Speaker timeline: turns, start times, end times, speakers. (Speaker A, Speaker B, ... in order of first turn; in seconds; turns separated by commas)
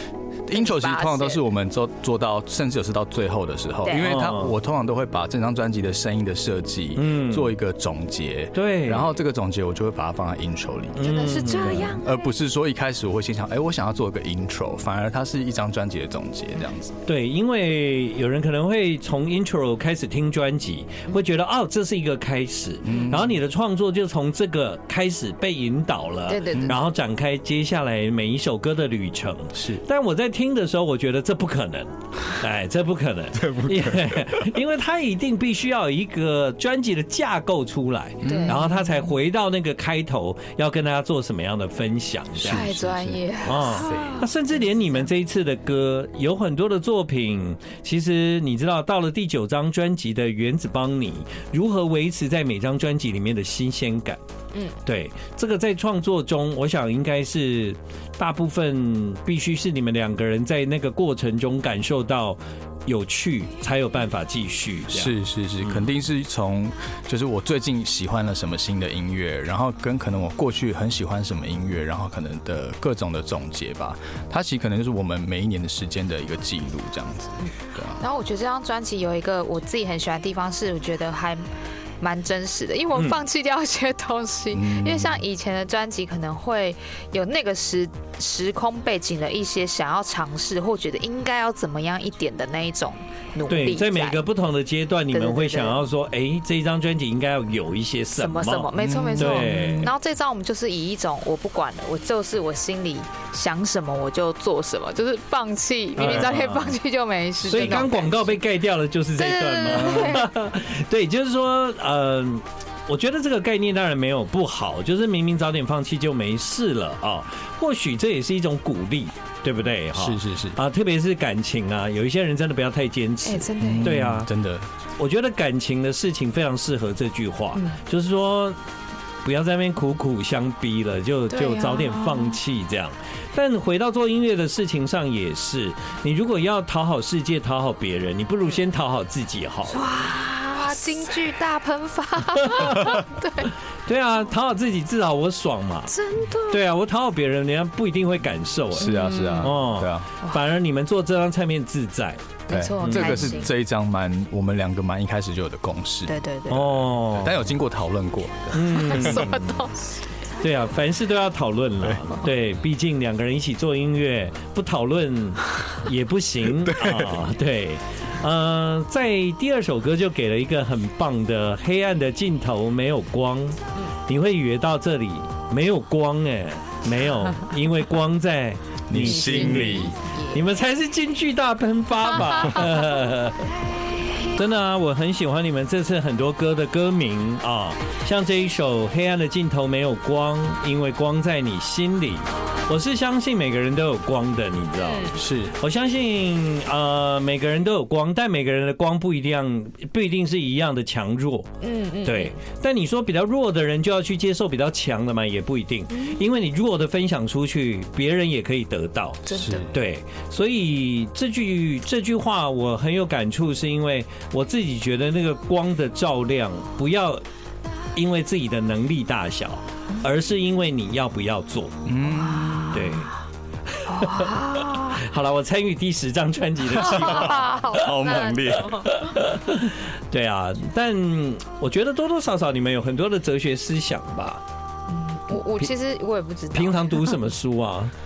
Speaker A: 0.5-17.0, Speaker B: 0.5-1.4, Speaker B: 3.8-4.1, Speaker C: 4.0-4.5, Speaker C: 7.0-7.5, Speaker C: 8.5-9.1, Speaker C: 10.9-11.9, Speaker B: 11.0-12.0, Speaker C: 17.1-42.7, Speaker A: 22.8-23.3, Speaker B: 26.3-26.8, Speaker A: 29.5-29.8, Speaker A: 33.3-34.5, Speaker A: 38.2-38.6, Speaker B: 38.2-38.8, Speaker A: 42.4-44.2, Speaker B: 42.4-44.3, Speaker C: 43.4-54.2, Speaker C: 54.8-65.8, Speaker A: 64.9-78.0, Speaker B: 78.0-81.4, Speaker B: 82.0-94.2, Speaker C: 82.9-83.2, Speaker A: 84.5-85.2, Speaker C: 93.5-99.9, Speaker B: 95.1-95.8, Speaker B: 98.2-108.4, Speaker A: 98.8-99.9, Speaker C: 106.0-106.7, Speaker C: 107.4-124.3, Speaker B: 109.2-110.3, Speaker A: 119.9-120.6, Speaker B: 123.2-124.0, Speaker A: 123.6-124.7, Speaker C: 125.0-128.6, Speaker C: 129.2-139.9, Speaker B: 131.3-132.4, Speaker B: 139.7-143.5, Speaker C: 142.3-143.0, Speaker C: 143.8-145.9, Speaker B: 145.9-146.6, Speaker C: 146.5-152.3, Speaker A: 148.7-150.1, Speaker B: 148.8-149.6, Speaker B: 152.5-153.5, Speaker A: 152.5-159.3, Speaker C: 152.8-153.3, Speaker B: 156.1-156.8, Speaker C: 156.5-157.5, Speaker C: 158.5-159.7, Speaker B: 158.7-160.0, Speaker C: 160.4-183.5, Speaker A: 166.6-167.2, Speaker A: 178.9-179.9, Speaker B: 179.0-180.6, Speaker C: 184.3-201.5, Speaker B: 194.8-195.2, Speaker A: 195.2-195.5, Speaker B: 201.6-202.3, Speaker C: 202.0-217.2, Speaker B: 205.9-206.2, Speaker B: 209.2-209.7, Speaker A: 209.3-209.7, Speaker C: 217.9-221.8, Speaker A: 221.8-222.9, Speaker B: 222.1-223.0, Speaker C: 222.7-223.1, Speaker C: 223.7-227.8, Speaker B: 223.8-225.0, Speaker B: 226.7-229.0, Speaker A: 226.8-228.9, Speaker C: 228.8-234.4, Speaker B: 234.9-237.2, Speaker C: 236.5-237.9